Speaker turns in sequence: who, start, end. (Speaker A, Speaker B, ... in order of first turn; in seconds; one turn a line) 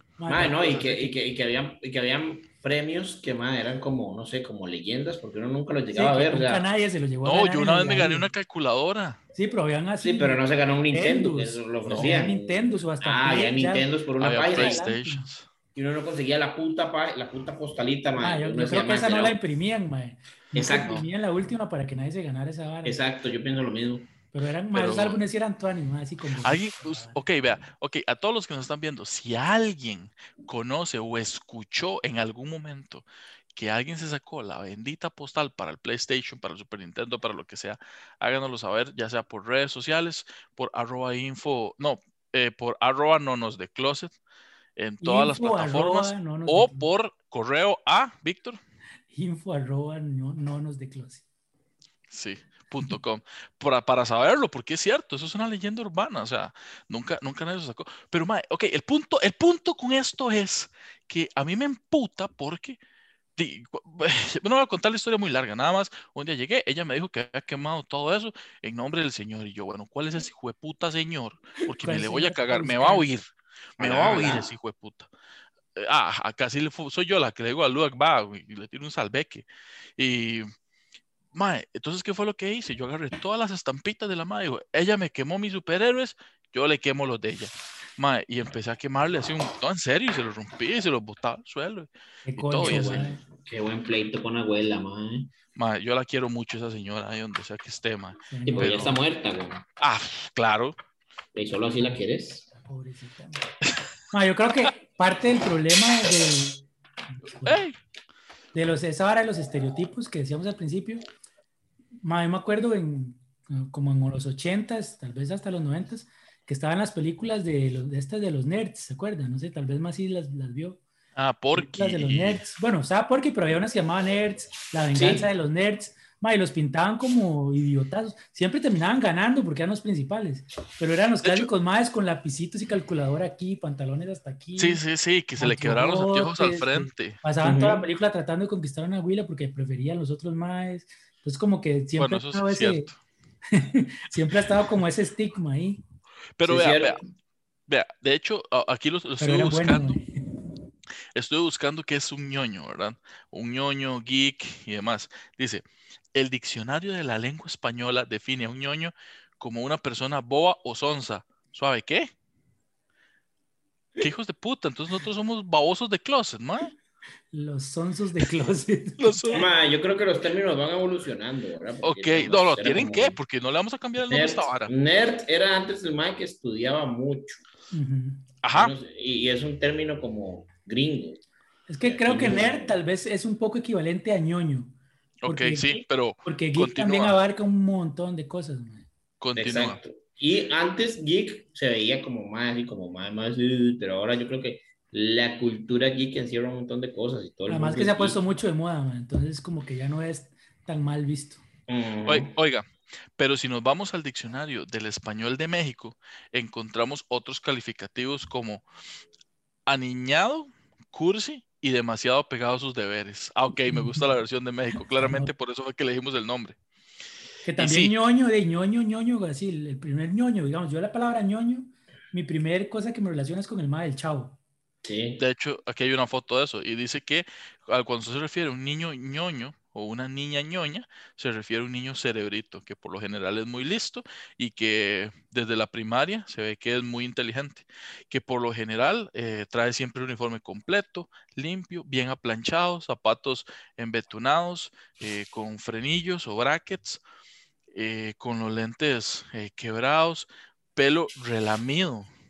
Speaker A: 0.2-1.1
Speaker B: 0.3-6.7
Speaker C: 0.6-0.9
Speaker A: 5.9-8.3
Speaker C: 7.2-9.2
Speaker A: 9.3-15.2
Speaker B: 10.0-14.8
Speaker C: 11.9-12.3
Speaker C: 14.2-15.5
Speaker B: 15.8-19.4
Speaker A: 18.2-23.0
Speaker B: 20.6-21.0
Speaker C: 20.8-21.1
Speaker B: 22.9-24.1
Speaker A: 24.3-27.2
Speaker C: 24.7-25.2
Speaker C: 26.4-44.2
Speaker C: 44.8-48.6
Speaker A: 45.0-46.9
Speaker A: 49.1-51.2
Speaker C: 52.1-62.8
Speaker C: 63.4-73.3
Speaker A: 71.7-73.1
Speaker C: 73.8-75.1
Speaker B: 73.8-74.5
Speaker C: 75.8-79.5
Speaker C: 80.0-80.5
Speaker C: 81.3-93.1
Speaker A: 92.2-93.2
Speaker B: 92.6-95.3
Speaker C: 95.5-99.0
Speaker A: 98.3-99.0
Speaker B: 98.5-99.6
Speaker C: 99.8-100.8
Speaker B: 101.3-102.5
Speaker A: 102.5-103.5
Speaker A: 104.1-106.6
Speaker A: 107.2-107.6
Speaker C: 107.4-107.8
Speaker A: 108.5-111.0
Speaker A: 112.0-120.8
Speaker C: 121.2-122.4
Speaker A: 121.5-134.8
Speaker B: 124.9-125.3
Speaker C: 131.2-131.5
Speaker C: 134.6-137.2
Speaker A: 135.4-142.9
Speaker B: 137.4-137.8
Speaker C: 142.0-143.0
Speaker A: 143.5-145.8
Speaker C: 146.4-147.0
Speaker B: 146.4-147.0
Speaker C: 147.7-150.0
Speaker A: 149.2-150.1
Speaker C: 151.2-162.1
Speaker C: 164.0-166.7
Speaker A: 167.3-169.5
Speaker C: 169.0-169.5
Speaker B: 169.3-173.2
Speaker C: 171.8-174.7
Speaker B: 174.1-177.4
Speaker A: 177.7-178.3
Speaker C: 178.4-178.8
Speaker B: 178.5-181.2
Speaker A: 181.7-184.7
Speaker B: 181.8-182.8
Speaker C: 185.2-187.2
Speaker A: 185.3-188.9
Speaker C: 189.2-189.8
Speaker B: 189.4-198.2
Speaker A: 197.5-201.4
Speaker B: 201.7-202.3
Speaker C: 202.1-208.7
Speaker C: 209.7-216.6
Speaker A: 213.7-214.1
Speaker A: 214.9-215.3
Speaker A: 217.4-224.4
Speaker C: 217.6-217.9
Speaker B: 224.8-225.2
Speaker C: 225.2-247.0
Speaker C: 247.7-252.1